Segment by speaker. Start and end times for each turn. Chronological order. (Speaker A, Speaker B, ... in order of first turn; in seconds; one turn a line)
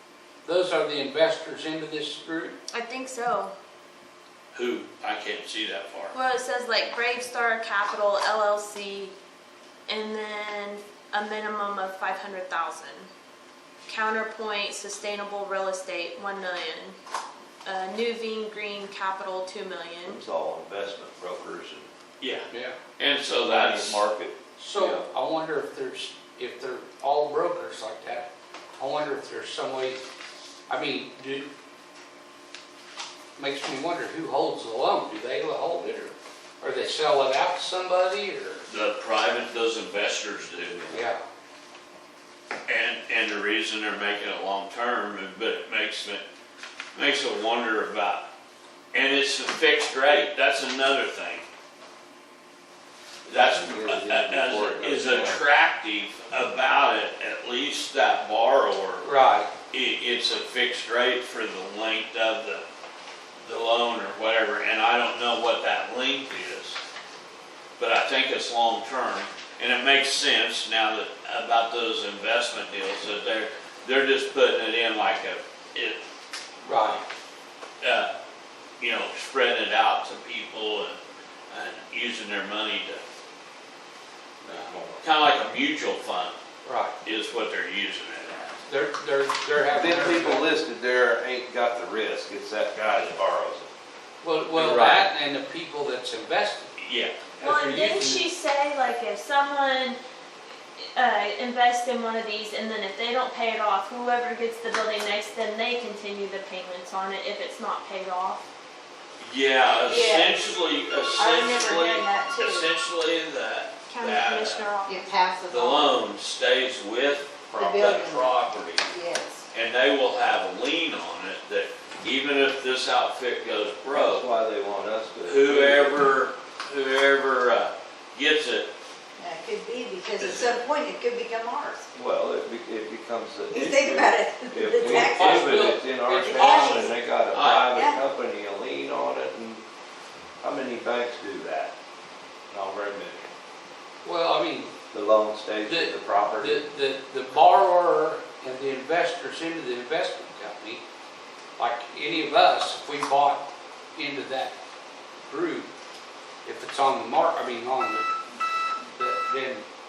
Speaker A: 0.5-2.6
Speaker B: 2.7-3.5
Speaker C: 4.5-6.2
Speaker B: 6.1-9.1
Speaker B: 9.9-13.1
Speaker B: 13.9-17.0
Speaker B: 17.6-20.2
Speaker D: 20.1-21.9
Speaker C: 22.2-24.1
Speaker A: 22.5-22.8
Speaker D: 23.5-25.1
Speaker A: 24.6-30.0
Speaker A: 30.7-31.5
Speaker A: 33.4-38.6
Speaker C: 38.7-41.0
Speaker A: 40.9-41.2
Speaker C: 42.7-46.2
Speaker C: 46.9-48.2
Speaker C: 48.9-51.4
Speaker C: 53.2-59.1
Speaker D: 53.4-55.4
Speaker A: 59.0-59.5
Speaker C: 59.7-62.6
Speaker C: 63.4-66.8
Speaker C: 67.8-76.0
Speaker A: 76.6-77.0
Speaker C: 76.7-77.0
Speaker C: 77.8-78.1
Speaker C: 78.8-81.0
Speaker C: 81.5-83.0
Speaker D: 84.4-85.0
Speaker C: 84.5-86.3
Speaker A: 86.6-86.9
Speaker C: 87.0-88.6
Speaker A: 88.7-90.5
Speaker D: 89.7-93.7
Speaker A: 94.2-96.7
Speaker C: 94.5-95.1
Speaker C: 96.8-97.4
Speaker A: 97.4-98.2
Speaker B: 97.4-100.0
Speaker B: 100.8-108.5
Speaker C: 109.2-114.7
Speaker E: 109.9-110.6
Speaker E: 111.2-112.7
Speaker B: 113.9-115.1
Speaker E: 114.8-115.9
Speaker C: 115.5-118.9
Speaker E: 117.5-118.3
Speaker E: 118.9-119.5
Speaker C: 119.5-124.2
Speaker D: 123.9-126.1
Speaker C: 125.3-128.7
Speaker E: 129.2-131.9
Speaker C: 130.2-130.6
Speaker D: 131.9-139.6
Speaker E: 133.5-137.0
Speaker A: 134.7-136.9
Speaker C: 137.3-137.8
Speaker E: 137.7-138.0
Speaker D: 140.4-141.7
Speaker D: 142.5-143.3
Speaker A: 144.0-144.7
Speaker D: 144.9-146.6
Speaker A: 145.6-150.8
Speaker A: 151.6-154.6
Speaker A: 155.2-155.7
Speaker A: 156.4-158.1
Speaker A: 158.9-159.7